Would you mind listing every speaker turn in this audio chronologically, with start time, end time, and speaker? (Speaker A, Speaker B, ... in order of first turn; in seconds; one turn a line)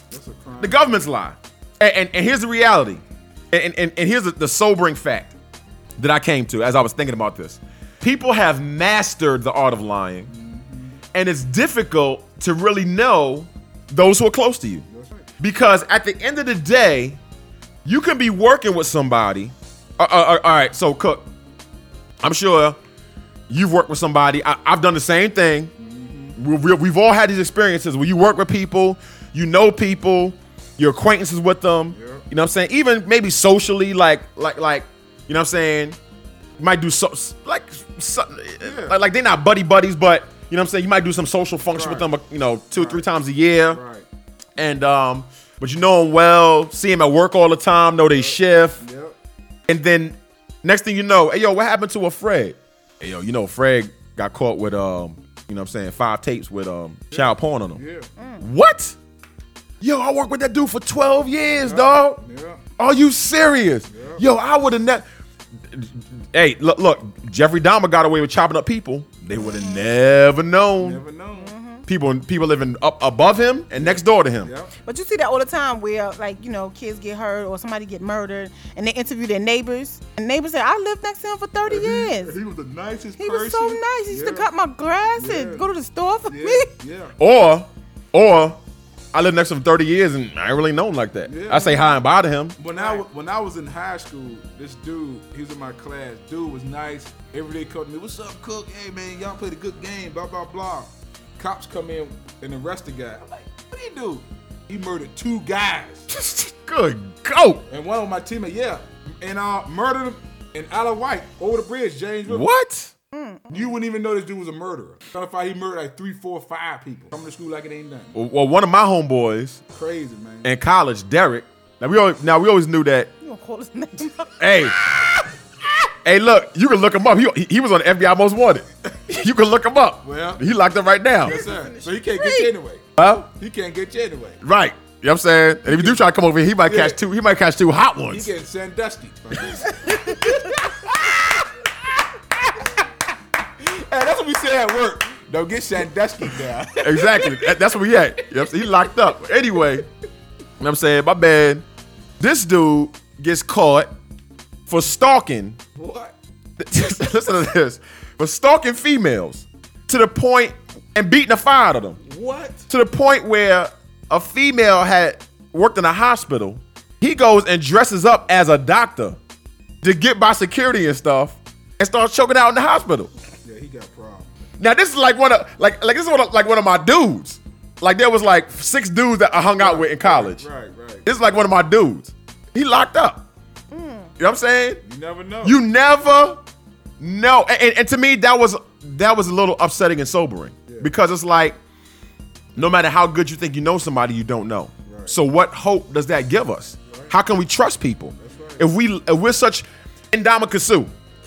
Speaker A: 0.1-0.9
Speaker B: 0.6-5.3
Speaker B: 6.0-10.3
Speaker A: 10.3-11.0
Speaker B: 11.1-14.8
Speaker A: 14.9-15.3
Speaker B: 15.4-17.2
Speaker B: 17.8-21.3
Speaker B: 22.2-22.8
Speaker B: 23.5-25.7
Speaker A: 25.8-26.4
Speaker B: 26.4-36.0
Speaker A: 31.9-32.2
Speaker B: 36.6-43.8
Speaker A: 38.6-39.0
Speaker A: 41.7-42.1
Speaker A: 42.7-43.0
Speaker A: 43.7-44.0
Speaker B: 44.6-48.8
Speaker A: 48.1-49.1
Speaker B: 49.7-57.8
Speaker A: 57.1-58.1
Speaker C: 58.2-58.5
Speaker B: 58.4-59.0
Speaker B: 59.8-62.2
Speaker A: 61.6-62.6
Speaker B: 62.8-65.0
Speaker A: 63.9-64.2
Speaker B: 65.7-71.0
Speaker C: 69.5-69.8
Speaker A: 70.8-71.5
Speaker C: 71.3-71.8
Speaker B: 71.9-74.5
Speaker A: 73.8-74.7
Speaker C: 74.8-82.4
Speaker A: 81.7-84.5
Speaker C: 83.2-86.7
Speaker A: 85.2-85.6
Speaker A: 86.3-87.1
Speaker B: 87.2-88.6
Speaker B: 89.1-92.6
Speaker A: 91.3-91.8
Speaker A: 92.6-106.0
Speaker C: 92.7-93.0
Speaker B: 106.1-107.6
Speaker A: 107.7-112.5
Speaker B: 112.3-112.9
Speaker C: 113.1-113.7
Speaker A: 113.5-118.1
Speaker B: 118.1-119.6
Speaker A: 119.7-120.5
Speaker B: 120.4-123.1
Speaker C: 123.2-124.3
Speaker B: 124.4-125.1
Speaker B: 126.0-131.4
Speaker A: 130.0-130.4
Speaker A: 131.2-134.4
Speaker C: 131.3-132.5
Speaker B: 133.0-133.3
Speaker B: 134.4-138.3
Speaker A: 135.7-136.0
Speaker A: 136.6-137.0
Speaker A: 138.1-140.5
Speaker A: 143.6-147.4
Speaker B: 146.8-149.8
Speaker B: 150.6-151.6
Speaker B: 152.2-153.9
Speaker B: 154.7-155.6
Speaker A: 155.7-156.1
Speaker B: 156.6-162.0
Speaker A: 162.0-162.6
Speaker B: 162.7-169.2
Speaker B: 169.8-173.1
Speaker A: 173.4-174.3
Speaker B: 174.6-180.4
Speaker A: 179.6-181.0
Speaker B: 181.0-183.3
Speaker C: 183.7-184.1
Speaker B: 184.2-184.8
Speaker A: 184.8-185.6
Speaker B: 185.4-186.4
Speaker B: 187.0-191.6
Speaker B: 192.6-200.9
Speaker A: 194.8-195.2
Speaker A: 198.2-198.7